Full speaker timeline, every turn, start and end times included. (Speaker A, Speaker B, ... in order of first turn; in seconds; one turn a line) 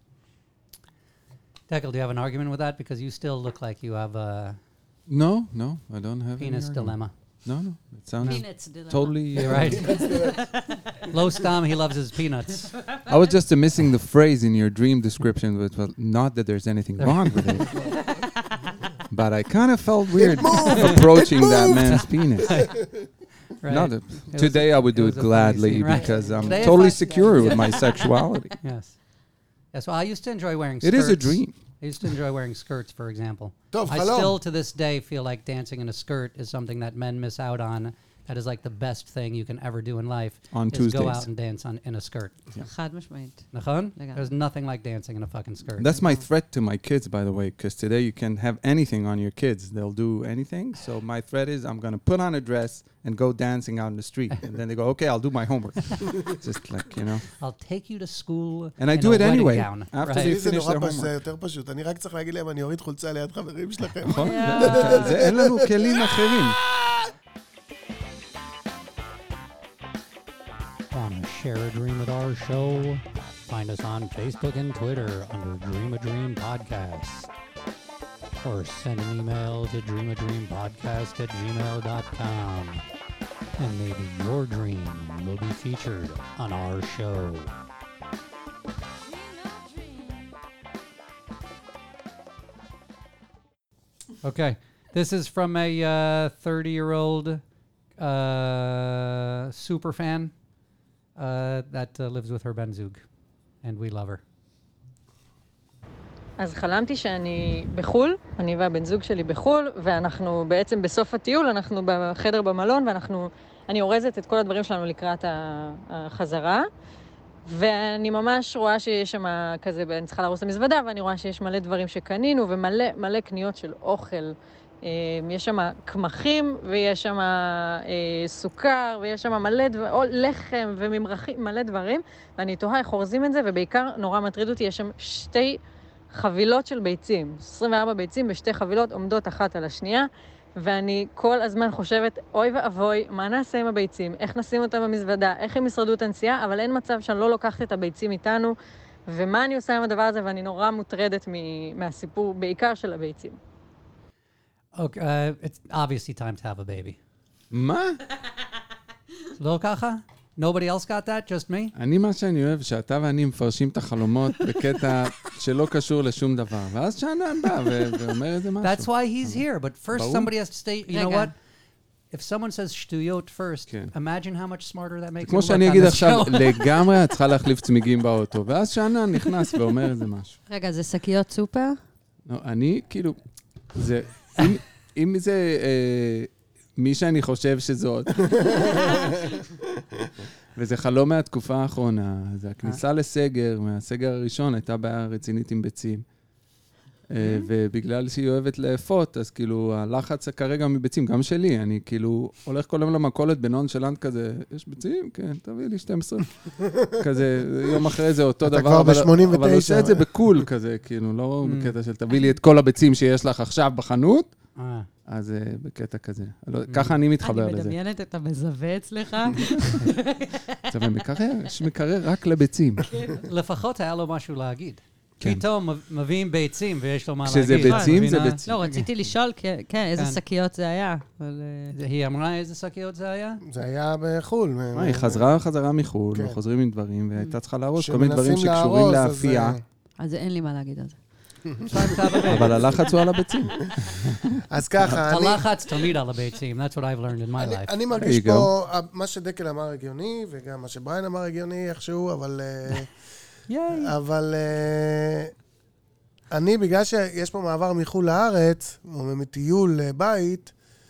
Speaker A: 1.7-4.6
Speaker B: 5.1-10.0
Speaker A: 6.4-7.1
Speaker C: 8.2-11.2
Speaker A: 9.4-9.8
Speaker D: 9.4-10.4
Speaker A: 11.1-12.7
Speaker C: 12.7-13.2
Speaker B: 13.1-17.8
Speaker A: 17.0-17.7
Speaker C: 17.8-18.6
Speaker B: 19.1-22.7
Speaker D: 20.1-23.1
Speaker A: 22.5-22.7
Speaker A: 23.6-27.8
Speaker B: 23.7-28.6
Speaker D: 26.1-26.9
Speaker C: 27.5-27.9
Speaker A: 28.6-28.9
Speaker A: 29.7-42.3
Speaker B: 30.8-31.5
Speaker D: 33.7-34.4
Speaker B: 40.5-41.3
Speaker C: 42.6-44.3
Speaker A: 43.5-46.0
Speaker B: 45.8-57.2
Speaker C: 46.0-46.2
Speaker A: 57.4-60.3
Speaker B: 58.8-61.1
Speaker D: 60.1-67.0
Speaker B: 64.0-66.6
Speaker C: 64.1-65.2
Speaker A: 70.9-77.3
Speaker A: 78.4-82.8
Speaker A: 83.6-87.5
Speaker C: 89.4-90.3
Speaker A: 94.2-97.4
Speaker A: 98.0-100.3
Speaker A: 101.2-103.0
Speaker A: 103.6-104.2
Speaker E: 106.4-116.6
Speaker E: 117.5-135.6
Speaker E: 136.1-140.1
Speaker E: 140.6-148.5
Speaker E: 149.1-153.4
Speaker A: 154.7-157.0
Speaker B: 157.5-158.0
Speaker A: 159.4-161.7
Speaker B: 161.7-169.4
Speaker A: 168.6-171.3
Speaker B: 169.9-170.3
Speaker C: 170.9-171.3
Speaker A: 172.1-176.8
Speaker B: 175.2-180.4
Speaker C: 180.5-181.8
Speaker B: 182.3-183.2
Speaker B: 183.7-189.1
Speaker C: 188.6-188.9
Speaker B: 190.6-196.0
Speaker B: 197.1-214.3
Speaker D: 208.4-210.1
Speaker A: 211.4-211.7
Speaker A: 214.6-214.9
Speaker B: 215.1-217.7
Speaker A: 216.7-217.0
Speaker C: 217.2-221.0
Speaker B: 220.7-222.9
Speaker C: 222.8-223.3
Speaker A: 223.2-228.9
Speaker B: 227.2-228.5
Speaker C: 227.6-231.7
Speaker A: 231.7-233.4
Speaker D: 233.4-235.3
Speaker B: 234.7-239.6
Speaker D: 236.1-236.4
Speaker D: 237.8-239.6
Speaker C: 240.0-241.0
Speaker D: 241.5-242.3
Speaker A: 241.7-242.7
Speaker B: 242.3-245.0
Speaker D: 244.5-245.4
Speaker A: 245.0-247.7
Speaker D: 247.4-252.9
Speaker B: 248.0-248.5
Speaker A: 253.5-253.9
Speaker D: 253.7-255.3
Speaker D: 256.3-260.5